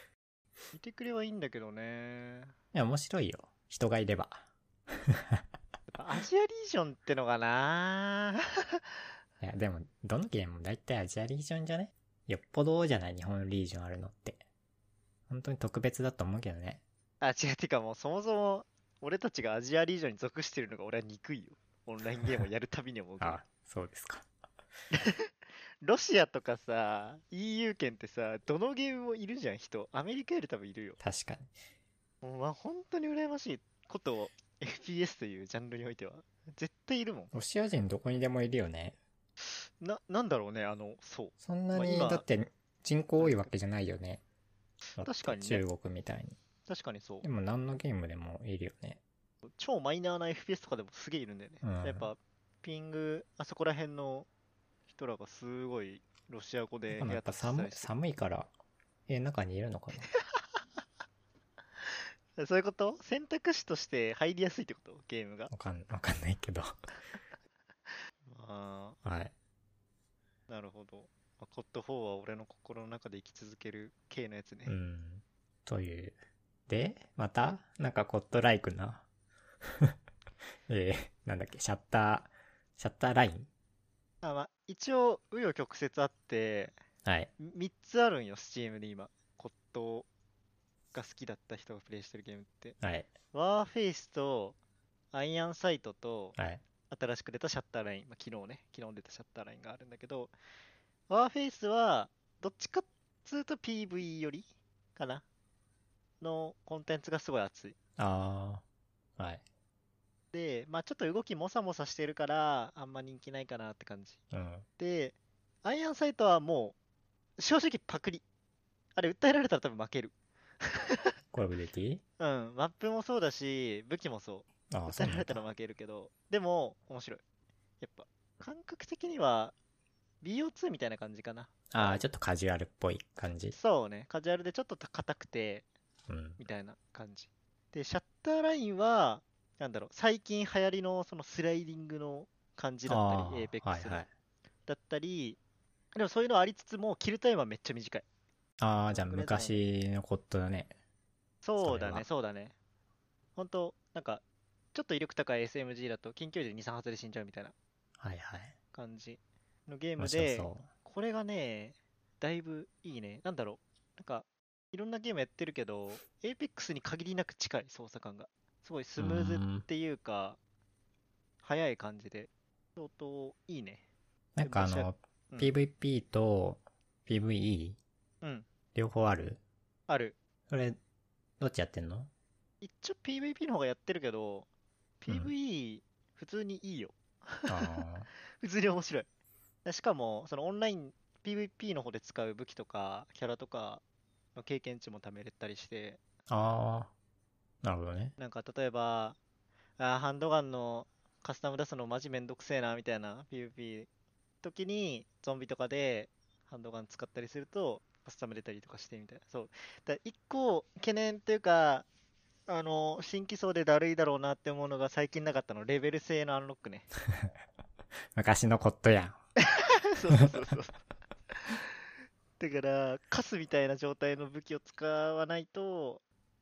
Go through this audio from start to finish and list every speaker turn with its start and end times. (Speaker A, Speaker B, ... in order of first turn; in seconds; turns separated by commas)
Speaker A: 0.7-2.5, Speaker B: 2.7-4.5, Speaker B: 5.1-5.4, Speaker A: 5.9-8.9, Speaker B: 9.4-14.4, Speaker B: 15.3-16.8, Speaker A: 17.2-23.4, Speaker B: 23.2-24.3, Speaker A: 24.9-31.0, Speaker B: 31.0-31.5, Speaker A: 32.2-37.3, Speaker B: 37.3-39.0, Speaker A: 39.4-42.2, Speaker B: 41.4-44.2, Speaker A: 43.2-43.5, Speaker B: 45.0-46.4, Speaker A: 45.0-45.6, Speaker A: 46.7-47.2, Speaker B: 47.2-49.0, Speaker A: 49.5-54.3, Speaker B: 51.6-52.1, Speaker A: 54.9-57.9, Speaker B: 56.9-58.5, Speaker B: 59.1-60.1, Speaker A: 60.1-60.6, Speaker A: 61.8-65.5, Speaker B: 65.5-66.7, Speaker A: 68.2-69.0, Speaker B: 69.0-69.3, Speaker A: 70.5-74.8, Speaker B: 74.7-79.0, Speaker B: 80.7-83.5, Speaker A: 84.2-86.8, Speaker B: 87.0-87.3, Speaker A: 87.4-90.1, Speaker A: 90.9-92.8, Speaker B: 92.8-93.1, Speaker A: 93.3-94.6, Speaker A: 95.1-96.4, Speaker B: 96.4-96.6, Speaker A: 96.9-100.3, Speaker A: 101.1-105.2, Speaker A: 106.2-107.8, Speaker B: 108.0-108.6, Speaker B: 109.2-109.4, Speaker A: 110.3-114.2, Speaker B: 114.3-114.7, Speaker A: 114.8-116.8, Speaker A: 117.4-118.2, Speaker A: 119.0-121.2, Speaker B: 121.3-122.0, Speaker A: 122.2-127.2, Speaker B: 124.7-125.4, Speaker A: 127.8-129.5, Speaker A: 130.2-132.0, Speaker B: 131.7-133.6, Speaker A: 133.6-135.7, Speaker B: 136.1-136.4, Speaker A: 136.4-144.1, Speaker B: 142.9-144.1, Speaker A: 144.7-145.4, Speaker A: 145.9-148.1, Speaker B: 148.6-150.8, Speaker A: 148.9-149.6, Speaker A: 151.4-152.6, Speaker B: 151.6-152.1, Speaker A: 153.4-154.2, Speaker A: 154.7-157.5, Speaker B: 158.0-158.6, Speaker A: 158.7-170.4, Speaker B: 160.0-160.7, Speaker B: 169.0-169.7, Speaker A: 171.4-173.8, Speaker B: 174.4-177.8, Speaker A: 174.4-175.5, Speaker B: 178.8-179.4, Speaker A: 179.9-180.2, Speaker B: 180.5-180.8, Speaker B: 181.4-182.1, Speaker A: 182.6-184.5, Speaker A: 185.0-187.8, Speaker B: 187.5-188.1, Speaker A: 188.4-189.1, Speaker A: 189.7-193.8, Speaker A: 194.3-196.0, Speaker B: 196.3-196.9, Speaker B: 197.6-198.2, Speaker A: 198.2-199.2, Speaker A: 199.8-203.9, Speaker A: 204.4-211.9, Speaker A: 212.5-216.9, Speaker B: 218.2-219.2, Speaker A: 219.4-220.8, Speaker B: 220.1-220.4, Speaker A: 221.3-221.8, Speaker A: 222.4-226.0